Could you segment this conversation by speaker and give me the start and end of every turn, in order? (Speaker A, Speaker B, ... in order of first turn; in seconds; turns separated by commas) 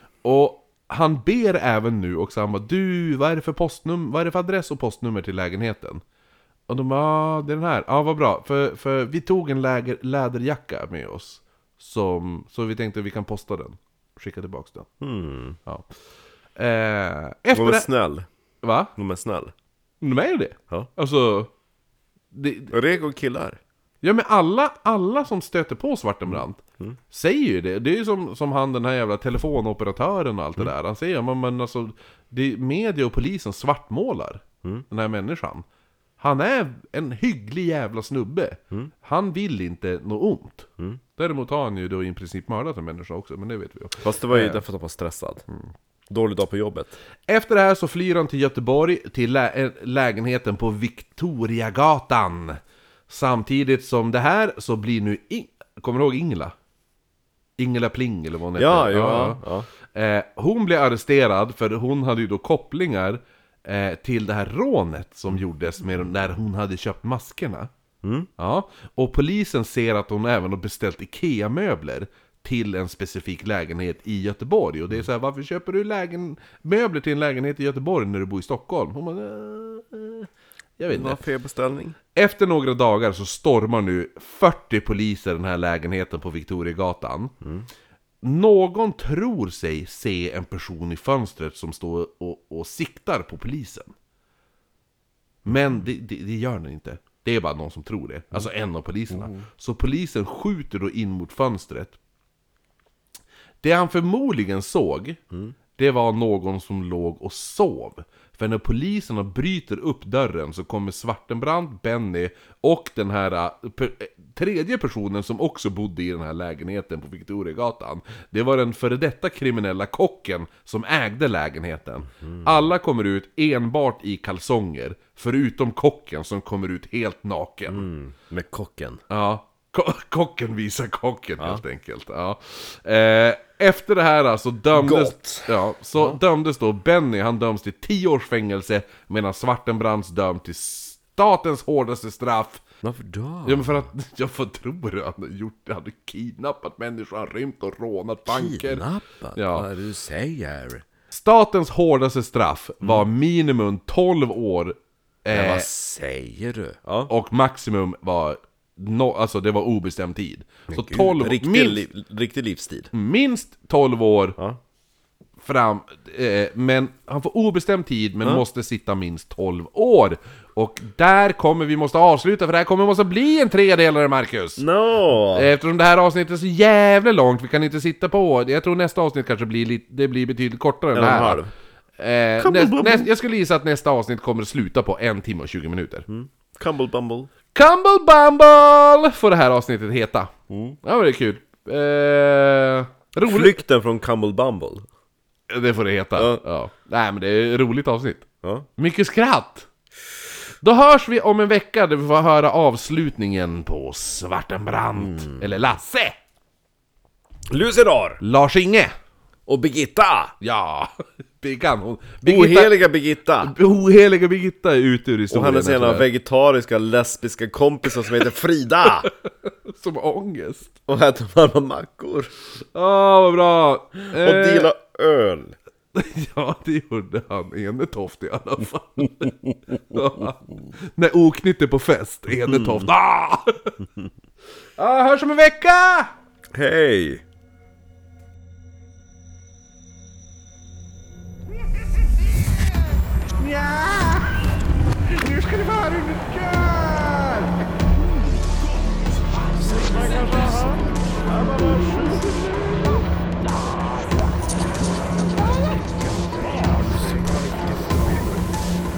Speaker A: 0.2-6.0, Speaker A: 6.7-14.9, Speaker B: 15.0-15.6, Speaker A: 16.6-17.9, Speaker B: 17.5-18.3, Speaker A: 18.6-18.9, Speaker B: 19.0-19.5, Speaker A: 20.0-21.5, Speaker A: 22.3-22.7, Speaker B: 22.7-23.6, Speaker A: 24.0-35.6, Speaker B: 26.3-27.0, Speaker A: 36.2-44.6, Speaker B: 44.0-45.5, Speaker B: 46.1-47.0, Speaker A: 47.3-52.6, Speaker A: 53.1-56.5, Speaker A: 57.6-67.7, Speaker B: 58.6-59.7, Speaker B: 68.0-68.3, Speaker A: 68.4-81.2, Speaker B: 80.9-82.0, Speaker A: 82.2-87.3, Speaker B: 87.4-87.7, Speaker A: 88.2-93.9, Speaker A: 95.5-102.0, Speaker A: 103.6-105.2, Speaker A: 105.8-127.9, Speaker B: 127.7-129.0, Speaker A: 129.1-142.6, Speaker B: 134.8-136.2, Speaker B: 142.8-143.8, Speaker A: 143.4-148.8, Speaker B: 148.3-150.8, Speaker A: 149.4-149.7, Speaker A: 151.1-155.7, Speaker B: 155.3-157.1, Speaker A: 157.1-161.8, Speaker B: 160.7-162.9, Speaker A: 162.9-164.4, Speaker A: 165.4-174.6, Speaker B: 174.6-175.5, Speaker A: 175.3-181.4, Speaker B: 180.9-181.5, Speaker A: 182.0-186.1, Speaker B: 182.4-183.1, Speaker B: 186.1-187.3, Speaker A: 187.6-193.6, Speaker B: 190.5-190.8, Speaker B: 193.2-194.9, Speaker A: 195.5-198.3, Speaker B: 196.2-196.4, Speaker A: 198.8-199.7, Speaker A: 200.6-206.2, Speaker B: 205.0-205.5, Speaker B: 207.5-208.2, Speaker A: 208.2-208.9, Speaker B: 209.5-210.3, Speaker A: 210.4-212.8, Speaker B: 212.2-213.5, Speaker A: 213.4-216.1, Speaker B: 215.3-219.1, Speaker A: 219.0-220.8, Speaker B: 220.9-222.3, Speaker A: 222.8-224.7, Speaker B: 224.1-225.6, Speaker A: 225.9-233.8, Speaker B: 232.5-232.9, Speaker A: 234.8-236.1, Speaker B: 236.5-237.2, Speaker A: 243.4-244.4, Speaker A: 245.1-247.7, Speaker B: 249.5-253.0, Speaker B: 255.6-258.5